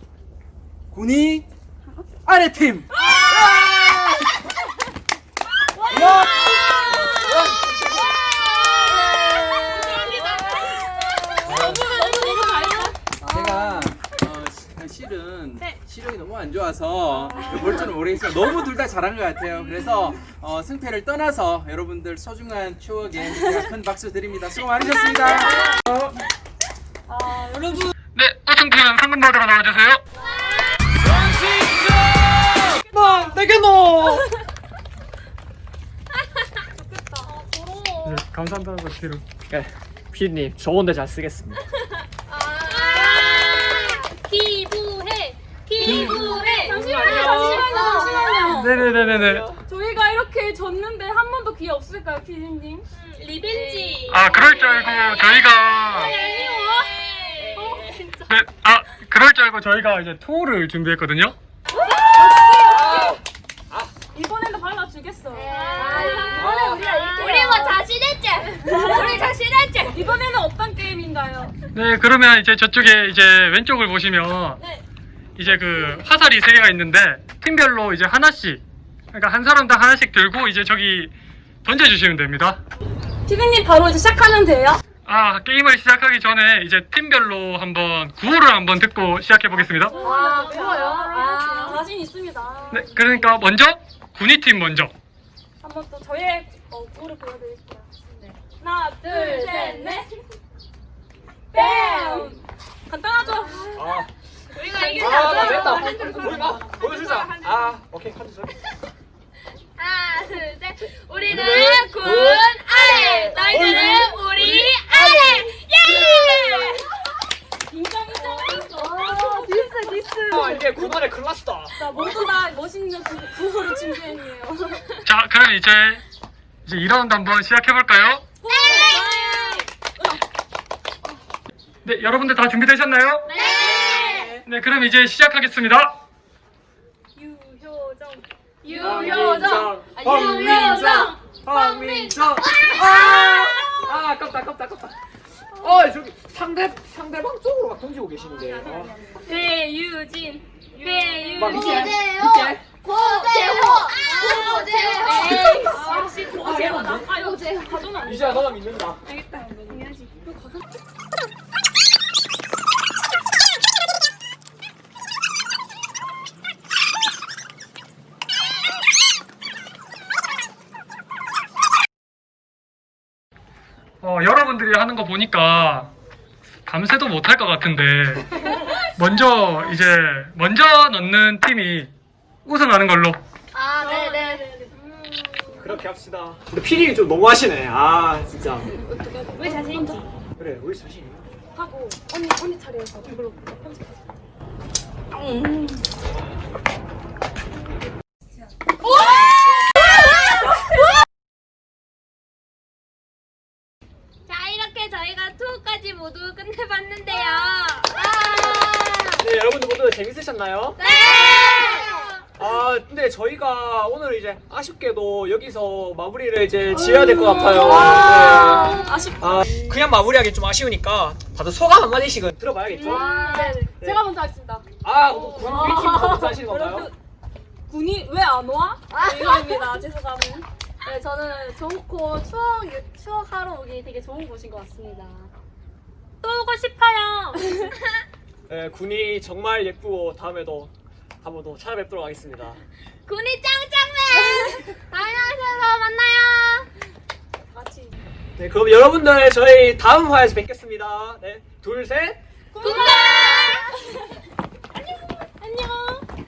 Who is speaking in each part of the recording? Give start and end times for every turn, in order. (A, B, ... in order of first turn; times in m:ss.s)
0:00.9-0:01.5 A
0:02.2-0:03.7 A
0:03.0-0:03.5 B
0:03.0-0:04.0 C
0:03.3-0:04.0 D
0:05.7-0:07.3 B
0:05.9-0:12.9 C
0:05.9-0:08.0 D
0:08.8-0:13.7 B
0:11.4-0:11.8 A
0:11.4-0:11.8 D
0:13.2-0:25.8 A
0:17.2-0:17.9 B
0:17.3-0:17.7 C
0:25.0-0:25.8 B
0:27.1-0:27.9 B
0:28.1-0:30.0 E
0:30.1-0:30.8 B
0:30.2-0:30.8 C
0:31.0-0:34.2 D
0:32.6-0:33.4 B
0:36.7-0:38.2 B
0:38.0-0:39.2 E
0:39.5-0:41.6 D
0:42.3-0:48.6 C
0:42.7-0:44.0 B
0:45.8-0:48.9 B
0:45.8-0:47.8 D
0:48.4-0:49.5 E
0:48.8-0:49.5 D
0:49.6-0:52.8 B
0:53.0-0:58.1 C
0:53.4-0:54.0 B
0:54.1-0:56.1 E
0:55.9-0:56.9 B
0:57.4-0:57.8 D
0:57.5-0:58.2 B
0:58.3-1:01.4 E
1:01.7-1:03.2 B
1:01.7-1:03.1 C
1:02.0-1:03.9 D
1:04.1-1:07.8 B
1:05.4-1:10.1 C
1:06.3-1:07.7 D
1:08.6-1:09.3 B
1:09.8-1:11.5 B
1:11.7-1:14.6 E
1:15.4-1:18.6 E
1:19.1-1:21.1 E
1:21.6-1:22.6 E
1:23.2-1:24.8 B
1:25.0-1:30.0 E
1:29.8-1:33.2 B
1:29.9-1:31.8 C
1:32.7-1:34.9 E
1:35.6-1:37.9 B
1:38.6-1:40.0 B
1:39.1-1:40.1 C
1:41.5-1:43.9 B
1:41.5-1:42.3 C
1:43.2-1:43.7 C
1:43.7-1:44.1 D
1:44.5-1:47.7 C
1:44.6-1:46.9 B
1:44.9-1:48.6 D
1:49.7-1:56.9 C
1:50.8-1:52.9 D
1:52.7-1:53.8 B
1:53.5-1:56.7 D
1:57.7-2:01.1 B
1:58.2-1:58.8 C
1:59.0-1:59.6 D
2:00.3-2:02.0 D
2:01.7-2:05.0 B
2:05.0-2:06.0 E
2:06.6-2:08.2 E
2:08.4-2:09.7 C
2:08.5-2:09.7 B
2:11.8-2:13.3 E
2:13.3-2:14.4 C
2:13.6-2:14.3 D
2:14.4-2:15.9 E
2:17.1-2:21.1 B
2:18.6-2:23.9 C
2:18.7-2:25.0 D
2:25.6-2:29.1 D
2:28.5-2:29.3 B
2:28.6-2:37.9 C
2:30.7-2:32.0 B
2:31.4-2:32.6 D
2:33.0-2:40.3 B
2:35.2-2:35.6 D
2:36.3-2:37.2 D
2:38.0-2:39.0 D
2:54.0-2:55.9 E
2:56.6-2:58.4 E
2:58.4-2:58.8 C
2:59.0-3:01.9 E
3:02.4-3:03.2 E
3:03.5-3:04.4 C
3:03.8-3:05.8 B
3:05.6-3:08.7 D
3:08.8-3:10.0 B
3:09.3-3:10.0 C
3:10.4-3:11.3 D
3:11.5-3:13.8 B
3:15.1-3:15.8 C
3:24.2-3:29.2 C
3:29.2-3:31.3 D
3:30.8-3:32.2 C
3:32.4-3:44.0 D
3:37.1-3:39.1 C
3:37.2-3:39.7 B
3:42.7-3:43.6 C
3:42.8-3:44.6 B
3:44.8-3:46.9 D
3:45.5-3:46.9 B
3:47.7-3:55.3 B
3:48.9-3:49.6 C
3:56.2-3:57.8 C
3:58.5-4:00.7 D
4:01.2-4:02.6 D
4:03.0-4:06.7 C
4:07.4-4:08.0 B
4:08.4-4:12.2 D
4:12.5-4:13.9 B
4:12.6-4:13.7 C
4:15.2-4:16.0 B